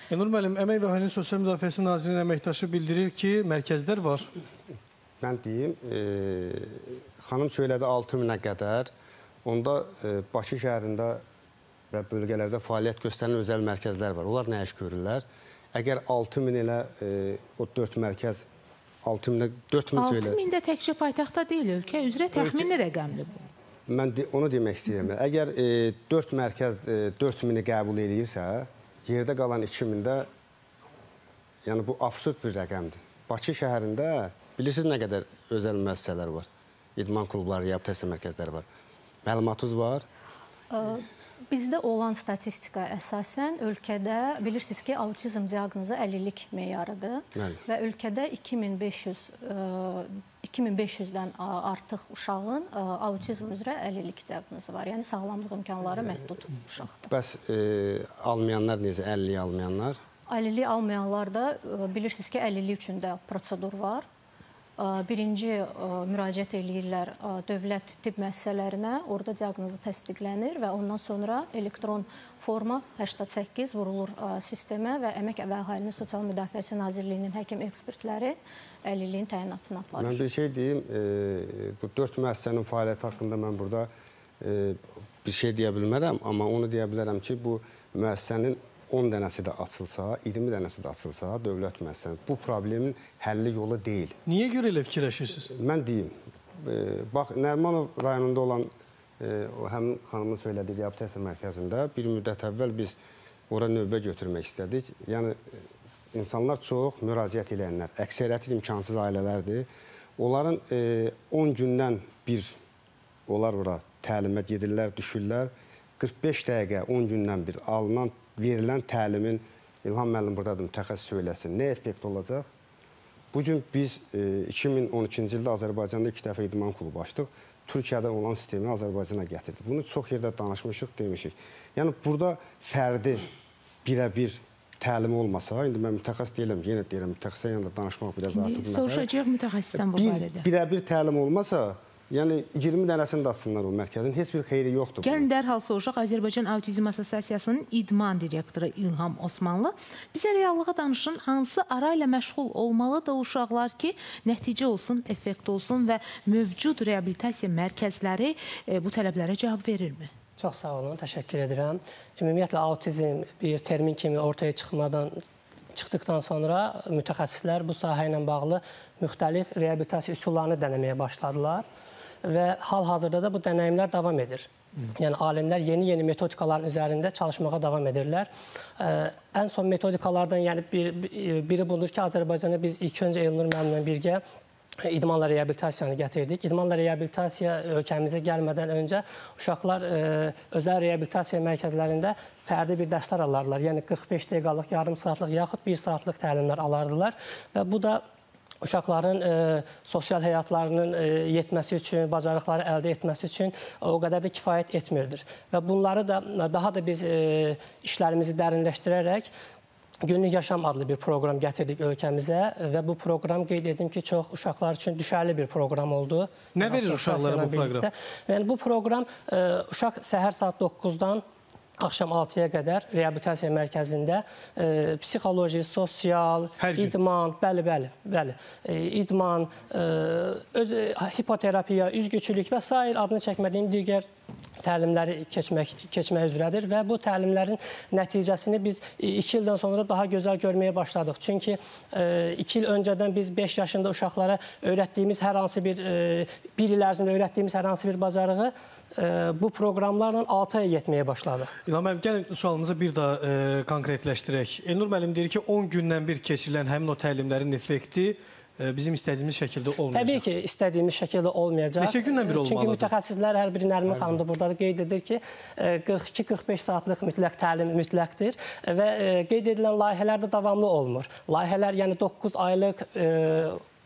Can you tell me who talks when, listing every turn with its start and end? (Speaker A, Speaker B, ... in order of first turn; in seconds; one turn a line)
Speaker A: 0.1-4.3
Speaker B: 5.2-8.9
Speaker B: 9.4-11.2
Speaker B: 11.9-18.4
Speaker B: 19.0-20.4
Speaker C: 20.0-23.4
Speaker B: 22.4-22.7
Speaker B: 23.9-30.3
Speaker B: 31.6-38.6
Speaker B: 39.2-40.0
Speaker D: 40.7-57.1
Speaker B: 47.4-47.6
Speaker B: 57.1-60.0
Speaker D: 60.3-64.0
Speaker D: 64.8-80.2
Speaker B: 80.0-83.9
Speaker B: 84.4-94.2
Speaker A: 94.3-95.5
Speaker B: 95.5-103.0
Speaker B: 103.5-109.7
Speaker B: 110.2-112.5
Speaker B: 113.3-122.5
Speaker B: 123.3-133.3
Speaker B: 133.8-139.1
Speaker C: 138.3-140.5
Speaker B: 139.8-145.3
Speaker C: 145.0-160.1
Speaker E: 160.4-165.2
Speaker E: 165.7-171.7
Speaker E: 172.2-184.2
Speaker E: 184.8-198.0
Speaker E: 198.6-209.3
Speaker E: 210.0-221.2
Speaker A: 216.5-217.9
Speaker E: 221.8-234.1
Speaker A: 226.6-226.9
Speaker E: 234.6-251.5
Speaker A: 251.7-260.2
Speaker E: 259.9-273.6
Speaker A: 261.8-262.9